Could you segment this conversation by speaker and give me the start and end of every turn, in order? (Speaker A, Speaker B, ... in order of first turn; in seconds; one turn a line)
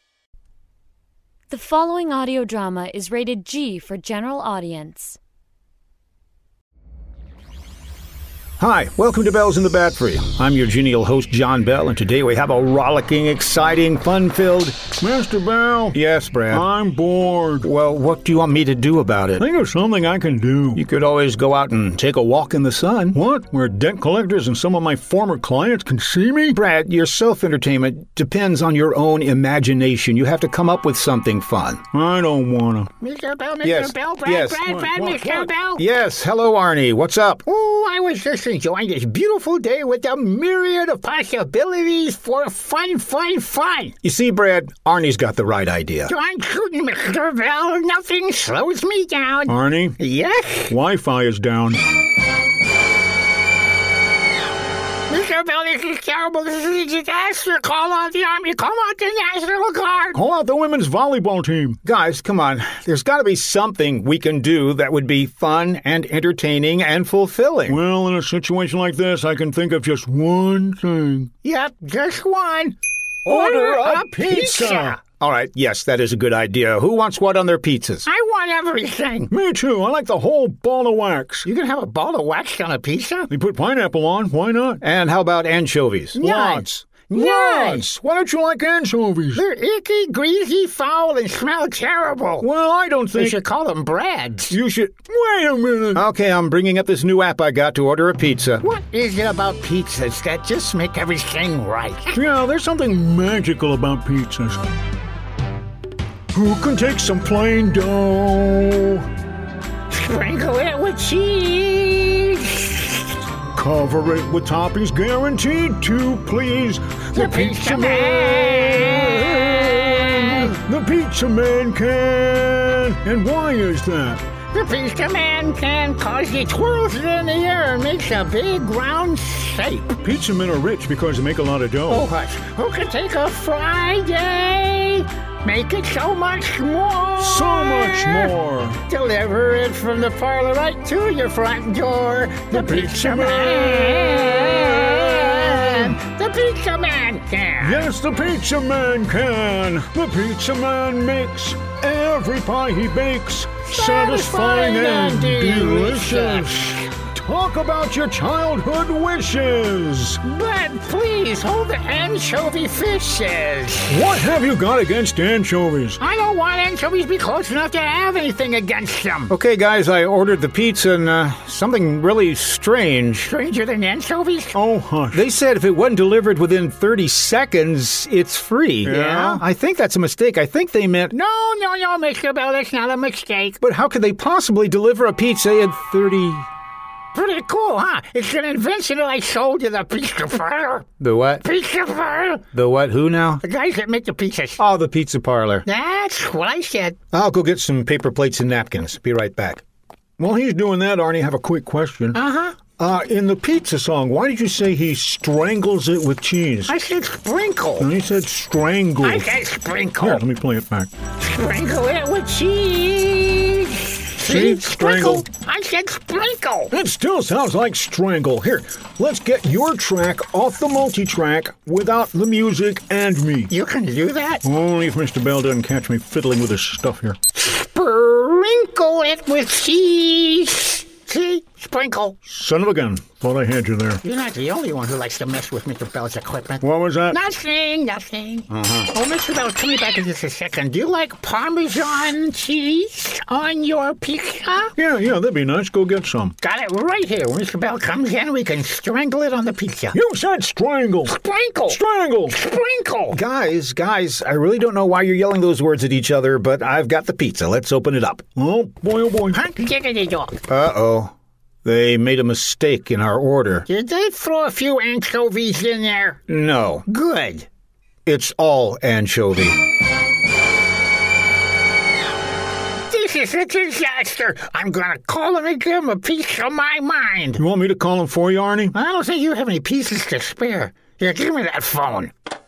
Speaker A: 1.5-5.2
Speaker B: 8.6-14.9
Speaker C: 14.9-15.9
Speaker B: 15.9-16.6
Speaker C: 16.5-17.7
Speaker B: 17.6-19.4
Speaker C: 19.4-20.8
Speaker B: 20.7-23.2
Speaker C: 23.1-26.6
Speaker B: 26.5-31.8
Speaker C: 31.9-32.9
Speaker D: 33.0-35.8
Speaker B: 33.6-34.6
Speaker C: 34.7-35.5
Speaker B: 35.8-37.4
Speaker D: 37.4-43.9
Speaker B: 44.0-46.1
Speaker D: 46.1-50.7
Speaker C: 49.6-49.9
Speaker C: 50.7-51.8
Speaker D: 55.1-60.2
Speaker C: 60.1-61.8
Speaker B: 61.8-67.8
Speaker C: 67.7-71.3
Speaker D: 71.4-75.0
Speaker C: 73.3-75.0
Speaker B: 75.0-78.1
Speaker D: 78.0-79.3
Speaker C: 79.3-81.5
Speaker D: 81.4-83.3
Speaker C: 83.3-84.8
Speaker B: 84.8-86.2
Speaker D: 86.2-87.8
Speaker C: 86.2-89.4
Speaker D: 89.3-92.5
Speaker C: 92.4-93.3
Speaker D: 93.1-94.6
Speaker C: 94.5-96.0
Speaker B: 95.9-98.6
Speaker D: 98.6-102.2
Speaker C: 102.1-104.6
Speaker C: 106.3-109.1
Speaker D: 109.9-113.1
Speaker C: 113.5-124.2
Speaker D: 117.1-120.5
Speaker D: 124.5-129.9
Speaker C: 130.0-132.1
Speaker D: 131.9-138.3
Speaker C: 137.2-138.8
Speaker D: 138.8-147.9
Speaker C: 142.5-145.7
Speaker C: 147.6-156.5
Speaker D: 153.7-156.9
Speaker C: 157.1-160.2
Speaker D: 160.2-164.0
Speaker C: 164.1-166.0
Speaker D: 166.0-169.3
Speaker B: 169.3-173.3
Speaker D: 173.3-174.6
Speaker C: 174.5-175.2
Speaker B: 175.1-181.1
Speaker C: 178.8-179.4
Speaker D: 178.9-179.4
Speaker D: 181.1-183.6
Speaker B: 183.6-186.5
Speaker D: 187.1-190.9
Speaker B: 191.0-191.4
Speaker D: 191.4-192.4
Speaker B: 192.5-193.4
Speaker D: 193.4-194.6
Speaker B: 194.6-195.6
Speaker D: 195.6-196.9
Speaker B: 197.1-199.6
Speaker B: 200.2-201.4
Speaker C: 200.8-202.2
Speaker D: 202.1-202.6
Speaker B: 202.8-205.6
Speaker C: 205.1-206.7
Speaker D: 206.7-207.9
Speaker C: 207.8-209.3
Speaker D: 209.0-210.2
Speaker C: 210.0-210.9
Speaker D: 211.2-216.7
Speaker C: 214.2-215.2
Speaker C: 216.7-223.5
Speaker D: 223.5-224.4
Speaker C: 224.4-227.2
Speaker D: 227.3-232.2
Speaker C: 232.2-234.0
Speaker D: 234.0-244.7
Speaker C: 236.6-237.2
Speaker B: 238.5-238.9
Speaker C: 244.8-246.3
Speaker D: 246.4-249.9
Speaker C: 249.9-251.1
Speaker D: 251.0-253.2
Speaker C: 251.7-252.3
Speaker B: 253.1-258.2
Speaker C: 258.3-259.4
Speaker D: 259.3-260.4
Speaker B: 260.5-263.7
Speaker D: 263.6-266.2
Speaker B: 266.3-266.9
Speaker D: 266.9-267.5
Speaker B: 268.1-269.6
Speaker D: 272.9-277.4
Speaker C: 277.4-278.7
Speaker D: 278.7-282.1